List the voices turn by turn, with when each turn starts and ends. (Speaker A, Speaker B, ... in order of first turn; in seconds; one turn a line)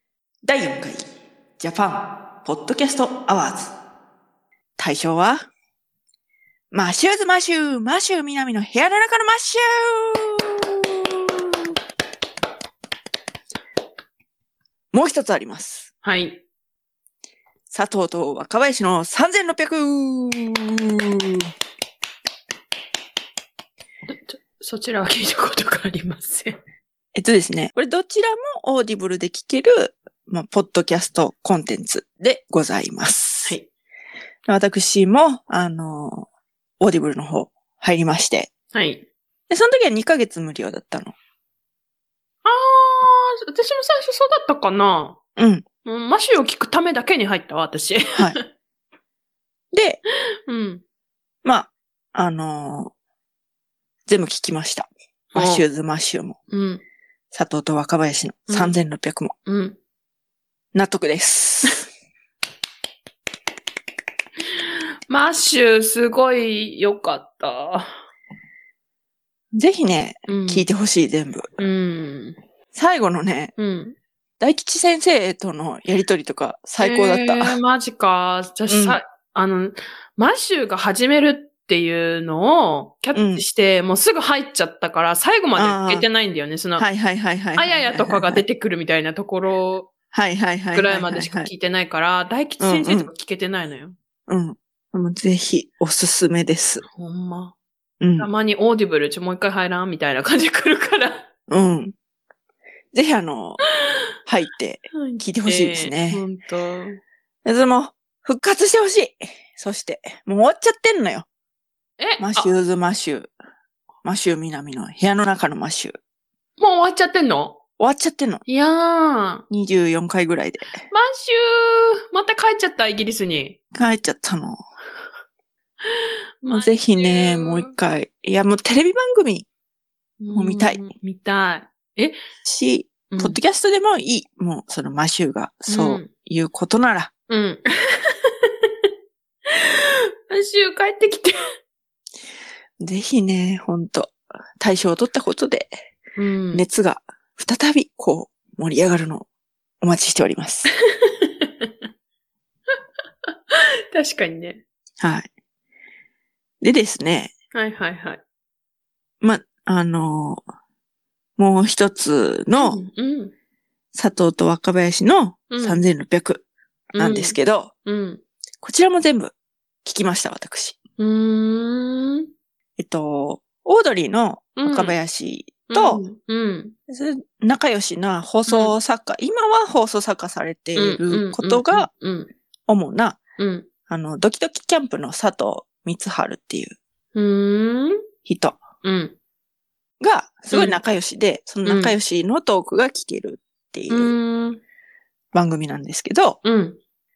Speaker A: 0.4-1.1
Speaker A: 1.6-3.7
Speaker A: 4.8-5.4
Speaker A: 6.7-11.4
Speaker A: 14.9-15.9
Speaker B: 16.0-16.4
Speaker A: 17.7-21.5
Speaker B: 24.1-26.6
Speaker A: 27.1-33.6
Speaker A: 34.5-36.3
Speaker A: 36.8-38.5
Speaker B: 38.7-39.0
Speaker A: 39.5-41.1
Speaker B: 42.4-45.2
Speaker A: 45.4-45.6
Speaker B: 45.8-48.5
Speaker A: 49.7-50.0
Speaker B: 50.5-50.8
Speaker A: 51.4-52.9
Speaker A: 54.1-56.4
Speaker B: 55.3-55.6
Speaker B: 56.5-56.8
Speaker A: 57.3-59.3
Speaker B: 58.5-58.7
Speaker B: 59.5-59.8
Speaker A: 60.7-61.9
Speaker B: 64.6-68.0
Speaker A: 69.5-71.5
Speaker B: 70.3-70.7
Speaker B: 71.6-72.4
Speaker A: 72.7-73.5
Speaker B: 73.6-74.0
Speaker A: 74.4-77.6
Speaker B: 76.8-86.8
Speaker A: 78.7-79.0
Speaker A: 83.1-83.4
Speaker A: 85.5-86.1
Speaker A: 86.8-88.4
Speaker B: 87.5-89.9
Speaker A: 90.1-91.5
Speaker B: 90.7-94.0
Speaker A: 92.6-93.1
Speaker A: 94.3-96.8
Speaker B: 96.8-97.5
Speaker A: 98.0-98.3
Speaker B: 98.2-101.3
Speaker A: 101.5-101.9
Speaker A: 102.9-103.6
Speaker A: 104.2-106.2
Speaker B: 104.9-107.0
Speaker A: 107.4-111.2
Speaker B: 112.0-112.5
Speaker A: 112.2-113.3
Speaker A: 114.0-115.9
Speaker B: 116.6-117.6
Speaker A: 117.8-118.4
Speaker B: 118.5-119.4
Speaker A: 119.5-120.8
Speaker B: 120.9-123.6
Speaker A: 123.7-124.6
Speaker B: 125.9-127.7
Speaker A: 126.5-129.5
Speaker B: 130.2-132.2
Speaker A: 130.3-130.8
Speaker A: 132.4-137.1
Speaker B: 133.1-133.4
Speaker B: 135.7-136.1
Speaker B: 137.3-138.9
Speaker B: 139.5-141.4
Speaker A: 142.8-145.7
Speaker B: 146.2-146.6
Speaker A: 146.5-149.3
Speaker A: 149.8-150.7
Speaker B: 150.9-151.7
Speaker B: 153.5-154.6
Speaker A: 155.0-155.3
Speaker A: 156.6-157.3
Speaker B: 157.5-158.2
Speaker A: 159.2-160.4
Speaker A: 161.4-162.8
Speaker B: 162.6-163.3
Speaker A: 163.9-166.4
Speaker B: 165.5-165.8
Speaker A: 166.9-167.7
Speaker B: 166.9-168.2
Speaker A: 168.6-169.3
Speaker A: 169.8-170.7
Speaker B: 171.0-172.3
Speaker A: 172.8-176.0
Speaker B: 174.6-174.9
Speaker B: 175.7-176.7
Speaker A: 176.9-181.9
Speaker B: 178.5-178.7
Speaker B: 180.8-182.3
Speaker A: 182.7-183.2
Speaker B: 183.4-183.7
Speaker A: 183.9-186.8
Speaker B: 187.1-188.0
Speaker A: 188.2-188.6
Speaker B: 188.8-189.2
Speaker A: 190.0-194.1
Speaker B: 190.5-190.8
Speaker B: 191.6-191.9
Speaker B: 193.9-194.6
Speaker A: 195.3-196.4
Speaker B: 196.4-196.8